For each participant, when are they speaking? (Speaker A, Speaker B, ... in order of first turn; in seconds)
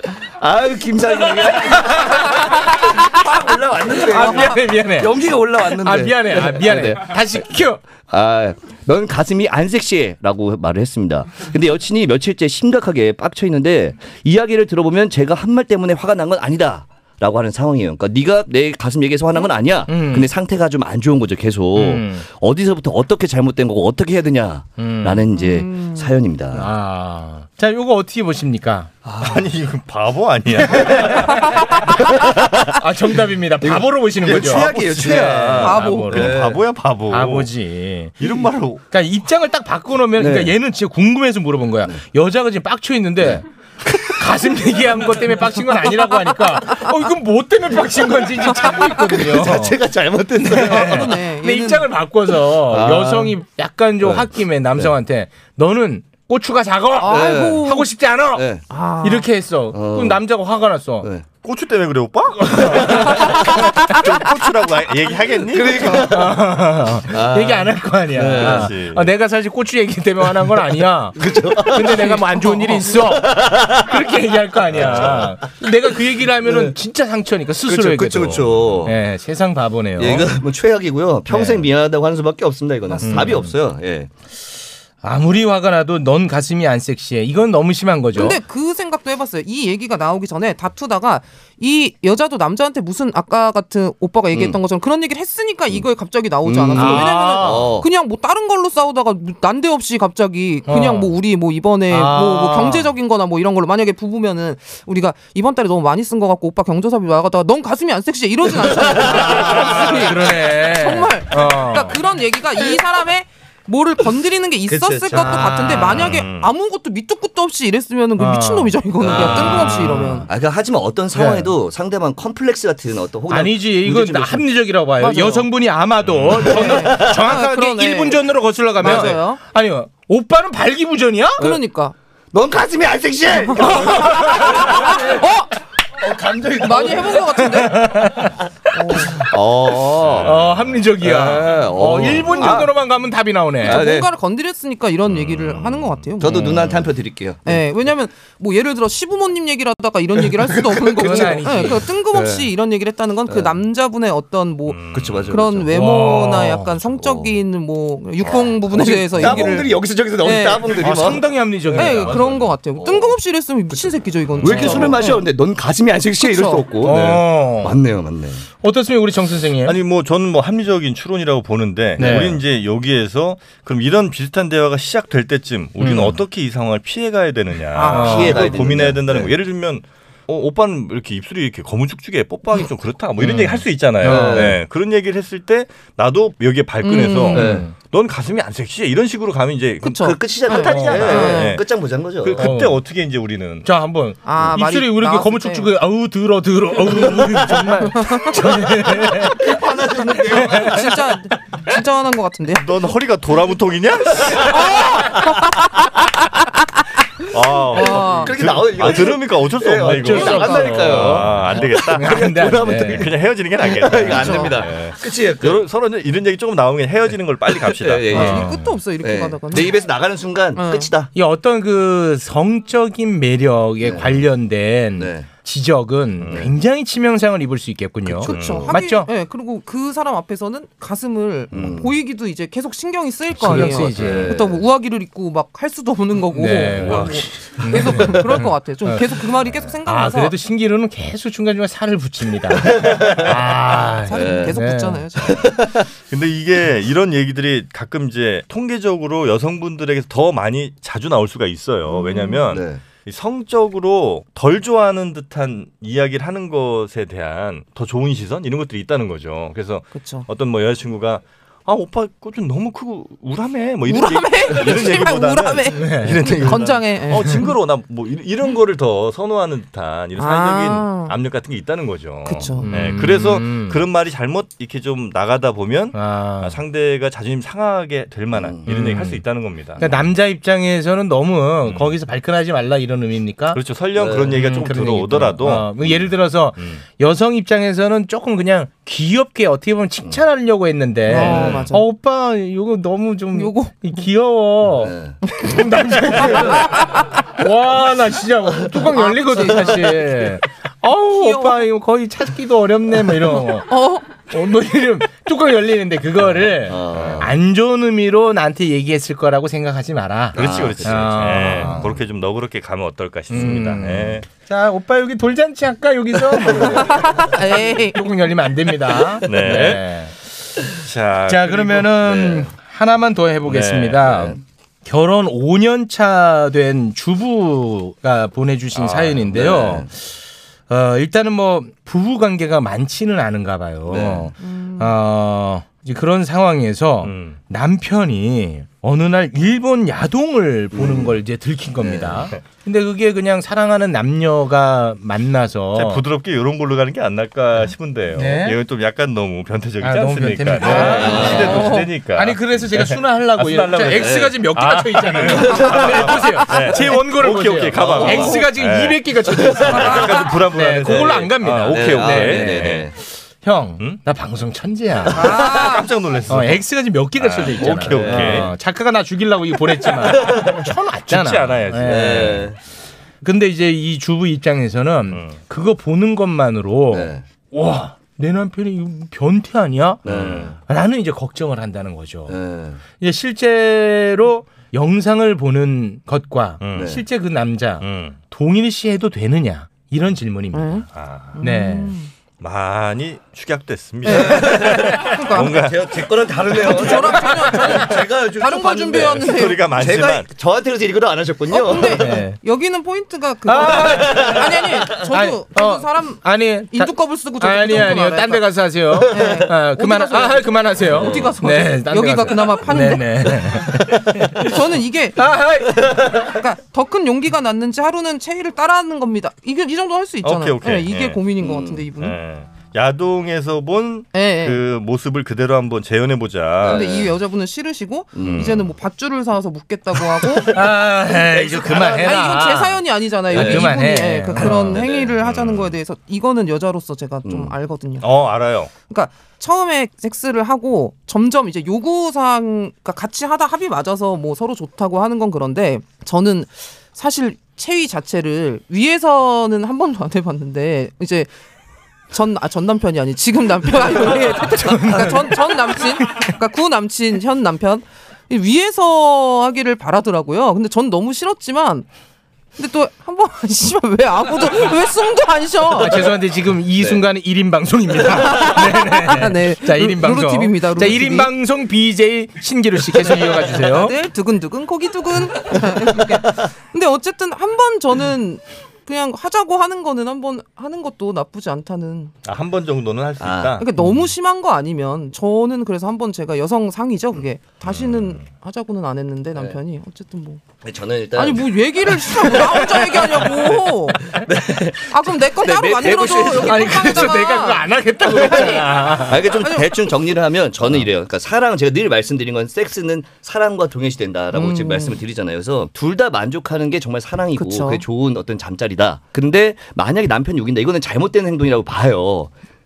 Speaker A: 0.4-7.4, 8.1-26.7, 29.0-29.4, 32.1-32.6, 33.6-36.6, 40.2-40.5, 43.2-43.9, 49.0-51.1, 52.7-53.4, 54.0-54.9, 57.0-57.7, 58.3-58.6, 59.7-60.2, 62.7-63.0, 65.5-66.4, 67.1-68.7, 71.2-72.2, 73.0-74.0, 74.7-75.3, 76.4-76.7, 77.7-78.9, 80.0-84.1, 94.3-94.6, 96.4-97.9, 114.7-115.6, 119.0-124.5, 126.4-127.2, 128.8-129.1, 132.3-135.3, 136.0-137.4, 138.9-140.4, 141.0-142.7, 143.6-144.1, 146.2-147.6, 150.2-152.5, 153.3-153.5, 154.9-155.7, 156.8-157.4, 158.2-162.2, 162.8-163.1, 163.7-168.4, 177.9-179.3, 184.0-184.6, 187.3-187.7, 189.8-192.4, 199.1-200.9, 207.8-215.6, 217.5-218.5, 219.0-221.1, 223.8-224.2, 225.0-225.3, 228.2-228.7, 231.5-231.9, 233.5-234.6, 242.7-243.2, 244.1-244.6, 245.3-245.8, 252.5-252.8, 278.3-279.1, 283.9-284.4, 294.8-295.2, 306.6-307.3, 310.3-311.9, 322.0-322.5, 324.1-324.4, 328.8-329.9, 333.9-334.3, 340.7-341.2, 341.8-342.3, 350.8-351.7, 353.9-354.4, 357.8-358.4, 361.7-362.9, 367.6-368.5, 371.8-372.6, 376.9-377.2, 380.0-380.6, 382.3-382.8, 386.7-387.0, 394.1-402.1, 404.0-404.4, 410.9-411.4, 421.4-421.8, 426.6-427.1, 428.1-428.6, 431.2-432.2, 433.3-433.8, 434.4-435.1, 437.2-437.5, 483.2-483.6, 490.6-497.1, 498.1-512.3
Speaker B: 4.0-7.8, 19.9-20.3, 21.7-22.2, 24.8-25.3, 26.5-28.9, 30.8-31.4, 32.7-36.3, 37.1-38.2, 38.9-43.5, 44.0-49.8, 50.4-58.4, 59.0-61.1, 65.9-80.3, 81.3-81.6, 83.0-83.5, 85.0-88.4, 96.8-97.7, 100.7-101.1, 101.9-102.9, 109.0-112.0, 115.1-116.1, 118.2-120.3, 121.1-121.5, 123.3-131.4, 137.5-138.3, 140.2-143.8, 146.3-146.8, 151.0-151.8, 155.7-156.7, 160.8-162.2, 164.5-164.9, 166.8-167.8, 168.6-169.8, 172.0-172.4, 175.8-176.2, 177.9-178.4, 183.2-184.6, 187.3-187.7, 190.6-191.3, 192.4-192.8, 193.6-199.4, 200.3-200.7, 209.8-213.1, 218.1-218.8, 221.1-229.1, 233.4-234.3, 236.3-239.2, 239.8-245.0, 265.7-266.2, 272.6-273.8, 275.9-276.6, 278.7-279.2, 279.8-283.6, 284.3-303.7, 304.3-311.9, 313.3-320.1, 321.3-330.1, 330.7-346.0, 348.1-348.6, 349.8-362.9, 363.4-365.4, 366.3-372.5, 373.2-382.4, 383.0-390.9, 391.4-391.9, 401.9-402.4, 403.5-404.4, 404.9-414.5, 415.2-416.0, 430.4-434.7, 454.6-456.3, 465.8-473.9, 496.4-499.2
Speaker C: 25.3-26.1, 35.6-36.3, 50.5-51.9, 57.0-57.9, 58.7-59.3, 71.8-72.9, 82.9-83.3, 88.1-120.2, 125.0-125.4, 126.5-128.2, 128.8-129.4, 131.4-131.9, 133.5-135.5, 136.6-137.9, 138.7-139.2, 143.6-146.4, 147.4-160.8, 161.7-165.2, 166.2-166.7, 177.7-178.8, 186.8-187.5, 189.8-191.6, 194.2-195.7, 197.9-198.4, 200.3-202.7, 204.5-205.8, 207.7-208.4, 210.1-210.9, 214.0-214.6, 218.1-219.8, 220.5-220.9, 228.2-240.3, 244.0-245.5, 251.9-252.4, 259.9-260.2, 263.9-267.5, 270.2-271.1, 272.2-272.7, 291.1-291.8, 293.3-294.0, 296.5-297.0, 298.8-300.1, 301.1-301.6, 303.7-304.1, 316.9-318.0, 334.4-334.9, 350.9-351.9, 359.7-360.3, 365.1-365.9, 390.5-390.9, 391.4-392.1, 394.0-395.5, 396.6-399.6, 401.5-413.2, 414.3-422.1, 424.1-424.6, 426.6-430.5, 432.0-438.1, 438.9-451.3, 452.1-461.9, 462.6-466.1, 468.0-471.3, 473.6-482.1, 483.6-490.4, 491.1-494.1, 494.9-499.8, 504.3-505.0, 507.4-507.8
Speaker D: 29.2-31.5, 34.3-37.5, 38.2-38.8, 61.4-66.0, 68.3-69.1, 74.8-75.3, 115.9-116.5, 126.1-126.5, 140.0-140.7, 145.1-145.9, 154.7-155.3, 161.7-162.5, 164.4-164.9, 169.6-190.0, 190.5-191.6, 192.2-193.7, 202.6-204.7, 207.3-218.3, 237.0-237.2, 246.1-279.8, 281.6-281.9, 283.5-285.9, 291.2-291.6, 306.9-307.3, 310.3-314.2, 319.2-319.9, 320.7-321.9, 323.5-324.0, 337.0-337.4, 345.7-362.9, 365.1-366.6, 367.2-368.5, 371.1-372.4, 375.1-375.4, 380.1-380.5, 386.6-386.9, 387.8-388.2, 390.9-391.4, 392.4-395.9, 399.1-400.3, 420.2-421.2, 422.0-427.0, 428.2-428.7, 434.5-435.7, 438.0-438.7, 482.2-483.7, 487.6-488.2